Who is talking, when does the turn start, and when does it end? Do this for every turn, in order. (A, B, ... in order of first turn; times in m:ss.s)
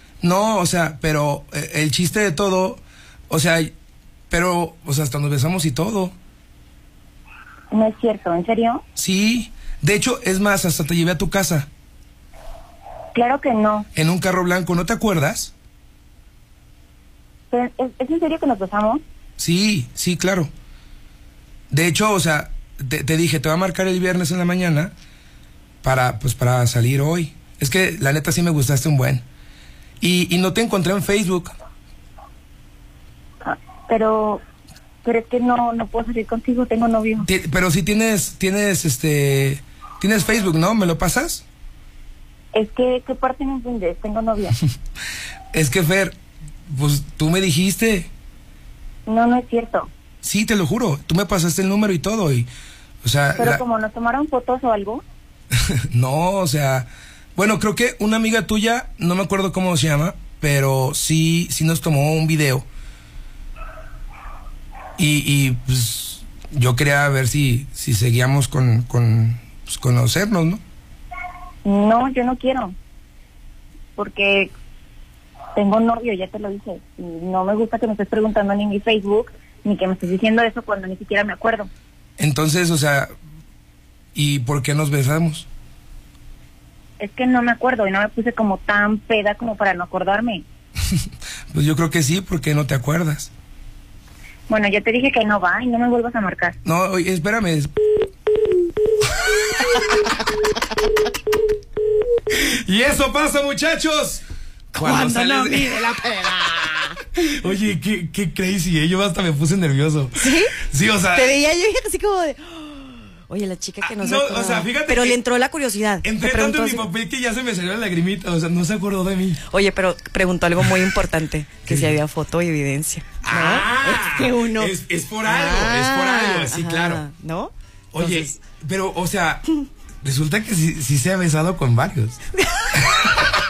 0:00.2-0:03.7 A
0:04.3-0:06.1 A
0:07.7-0:08.8 B
0:09.0-0:11.7 A
0:13.1-0:13.8 B
0:13.9-0:15.5 A
0:17.5-0:19.0 B
0:19.4-0:20.5 A
0:21.7-0:24.9 A
0:25.8-0:29.2 A
0:30.0-0:31.5 A
0:33.4-0:34.4 B
0:35.0-0:37.3 B
0:37.2-0:41.4 A
0:42.5-0:44.6 B
0:45.5-0:46.2 A
0:46.7-0:48.1 A
0:49.1-0:49.9 B
0:50.2-0:52.5 A
0:53.0-0:53.6 A
0:53.4-0:55.0 B
0:55.9-1:02.6 A
1:05.0-1:10.6 A
1:11.6-1:12.7 B
1:14.0-1:14.5 B
1:15.6-1:21.7 B
1:22.2-1:23.1 A
1:24.1-1:25.5 A
1:27.0-1:30.4 B
1:31.5-1:33.3 A
1:34.5-1:36.6 B
1:36.6-1:37.7 A
1:42.3-1:44.2 A
1:44.7-1:47.0 C
1:44.8-1:51.4 A
1:50.2-1:50.6 C
1:51.1-1:56.9 C
1:53.8-1:55.2 A
1:56.0-1:59.4 A
1:59.5-2:04.7 C
2:01.6-2:02.0 A
2:03.2-2:07.0 A
2:05.2-2:08.4 C
2:07.9-2:09.4 A
2:10.0-2:12.2 A
2:12.5-2:13.0 C